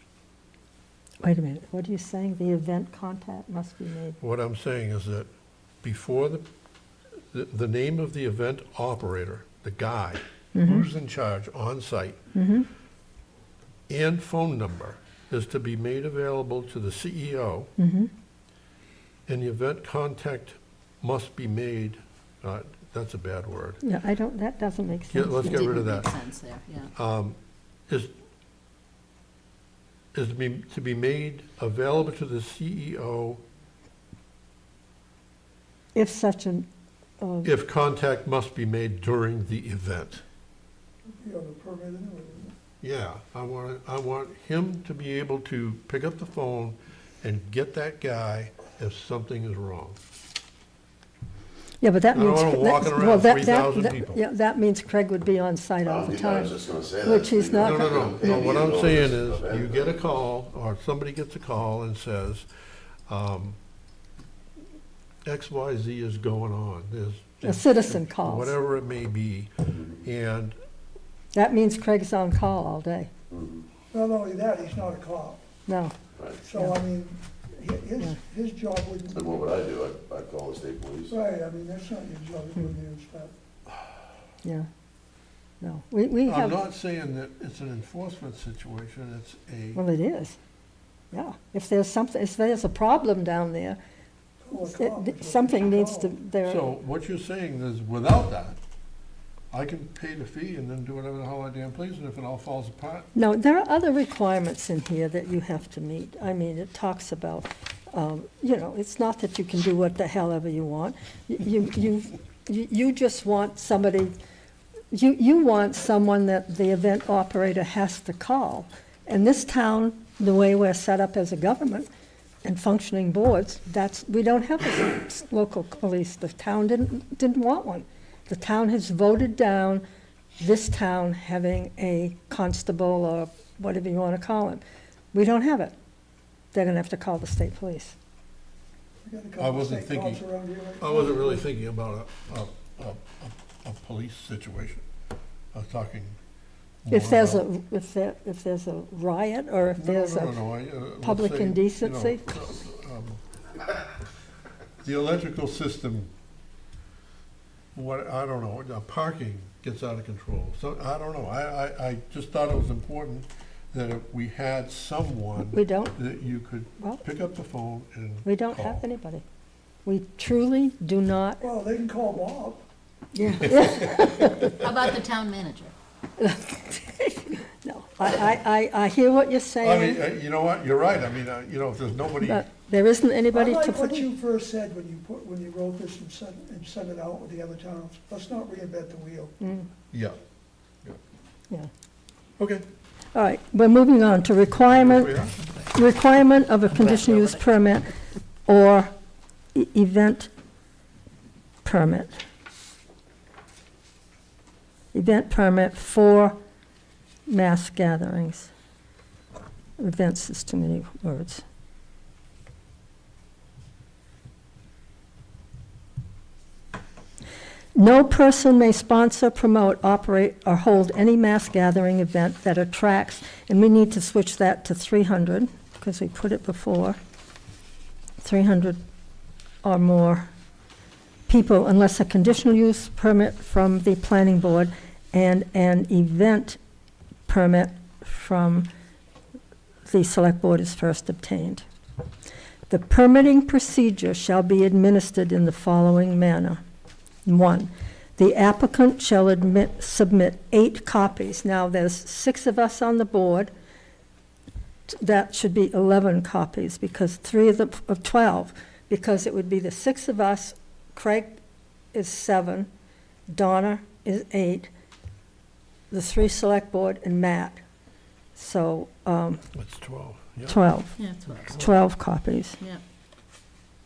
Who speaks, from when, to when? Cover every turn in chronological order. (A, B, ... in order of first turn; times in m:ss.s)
0:01.2-0:04.2 A
0:04.2-0:05.3 B
0:05.8-0:06.5 B
0:07.3-0:12.2 B
0:10.5-0:10.9 A
0:12.3-0:12.7 A
0:13.9-0:17.7 B
0:17.8-0:18.1 A
0:19.3-0:23.8 B
0:23.8-0:25.7 A
0:25.1-0:26.1 B
0:25.4-0:26.9 C
0:26.9-0:27.4 B
0:30.1-0:33.4 B
0:35.9-0:36.7 A
0:37.2-0:37.5 A
0:37.4-0:40.2 B
0:41.2-0:42.5 D
0:42.8-0:50.0 B
0:51.8-0:58.6 A
0:52.1-0:54.2 B
0:55.9-1:00.2 E
0:57.6-1:02.5 B
1:03.1-1:03.6 B
1:05.2-1:10.6 B
1:07.4-1:08.5 A
1:11.3-1:13.1 A
1:13.3-1:13.6 E
1:13.9-1:15.4 D
1:15.7-1:16.0 A
1:16.4-1:19.5 D
1:16.5-1:16.8 A
1:19.1-1:21.2 E
1:21.1-1:23.3 D
1:24.4-1:24.7 A
1:25.6-1:26.6 A
1:26.3-1:29.8 B
1:29.8-1:30.4 A
1:31.1-1:33.8 A
1:34.5-1:36.2 D
1:34.5-1:36.7 A
1:36.4-1:38.6 B
1:39.5-1:43.1 B
1:43.1-1:54.2 A
1:54.9-2:01.9 A
2:02.4-2:09.9 A
2:10.4-2:15.8 A
2:16.5-2:18.0 A
2:19.0-2:21.5 D
2:19.4-2:20.2 B
2:20.8-2:24.8 B
2:25.5-2:26.2 B
2:26.8-2:27.4 B
2:26.9-2:30.4 A
2:29.8-2:33.2 B
2:31.0-2:32.2 A
2:34.8-2:36.1 B
2:37.7-2:48.8 B
2:45.5-2:46.0 A
2:46.8-2:47.0 A
2:48.2-2:49.2 A
2:49.8-2:51.5 A
2:51.4-2:52.6 D
2:53.1-2:54.7 A
2:53.5-2:54.6 B
2:54.6-2:55.7 C
2:56.2-3:00.0 A
2:59.6-3:02.4 B
3:02.2-3:04.2 A
3:03.3-3:09.3 D
3:09.4-3:09.7 A
3:09.9-3:10.2 B
3:12.4-3:12.6 B
3:13.1-3:15.2 A
3:14.7-3:15.4 B
3:15.7-3:17.9 A
3:18.5-3:18.9 A
3:19.5-3:20.3 A
3:21.6-3:22.2 A
3:24.9-3:26.4 A
3:27.3-3:28.5 A
3:29.8-3:31.4 A
3:37.8-3:47.0 A
3:48.2-3:48.8 A
3:49.6-3:50.3 A
3:51.3-3:56.6 A
3:57.3-3:58.7 A
3:59.9-4:01.6 A
4:02.7-4:06.6 A
4:07.2-4:13.5 A
4:14.9-4:21.4 A
4:21.9-4:22.7 A
4:23.3-4:24.7 A
4:25.9-4:27.6 A
4:28.4-4:29.4 A
4:29.5-4:30.6 B
4:30.5-4:32.6 A
4:31.0-4:31.8 C